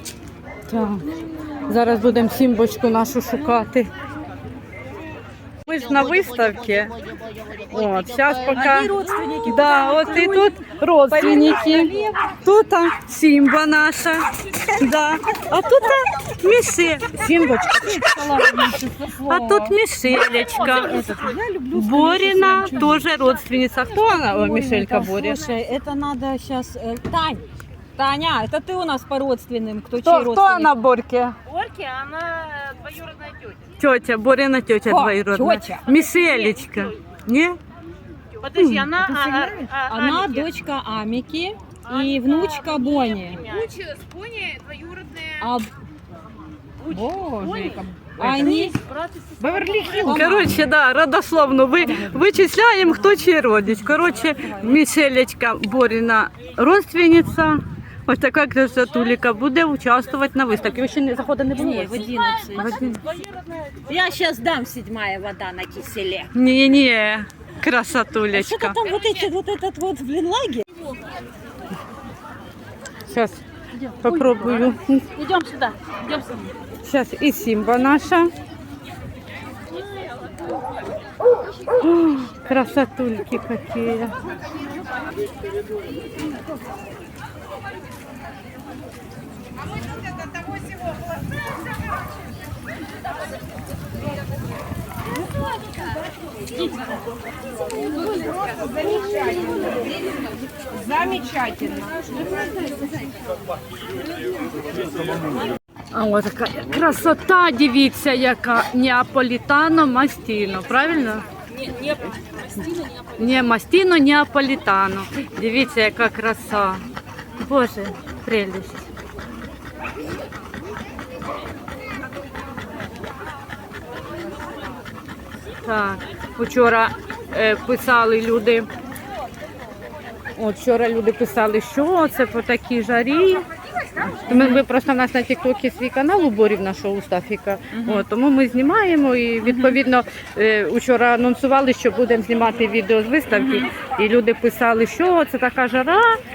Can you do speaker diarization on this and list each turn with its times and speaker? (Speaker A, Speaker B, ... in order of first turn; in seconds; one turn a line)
Speaker A: 0.7-1.1
Speaker B: 1.1-1.9
Speaker A: 1.7-3.9
Speaker A: 5.7-7.0
Speaker A: 7.7-8.9
Speaker B: 8.5-12.4
Speaker A: 9.4-11.9
Speaker A: 12.4-21.0
Speaker B: 17.3-19.8
Speaker B: 20.4-23.1
Speaker A: 21.7-25.4
Speaker B: 24.0-27.4
Speaker B: 28.0-30.7
Speaker A: 30.0-31.4
Speaker C: 31.5-33.7
Speaker A: 33.8-37.6
Speaker B: 34.8-35.9
Speaker C: 36.2-36.8
Speaker C: 38.4-40.4
Speaker A: 38.5-38.9
Speaker B: 39.0-43.5
Speaker C: 41.9-45.4
Speaker B: 45.4-45.7
Speaker B: 46.9-48.8
Speaker C: 46.9-50.1
Speaker B: 49.5-50.6
Speaker A: 50.0-63.0
Speaker B: 54.2-54.8
Speaker B: 61.5-62.8
Speaker B: 63.9-66.3
Speaker A: 66.3-68.8
Speaker B: 68.3-70.6
Speaker A: 73.1-73.4
Speaker B: 73.8-76.4
Speaker A: 74.0-75.1
Speaker A: 76.8-78.3
Speaker A: 81.8-84.1
Speaker B: 98.8-99.8
Speaker B: 100.8-102.4
Speaker A: 105.9-111.2
Speaker A: 113.2-116.8
Speaker A: 117.4-118.8
Speaker A: 125.6-128.7
Speaker A: 130.3-146.2
Speaker B: 134.3-134.6
Speaker B: 137.7-138.1
Speaker B: 139.4-139.8
Speaker B: 143.4-143.7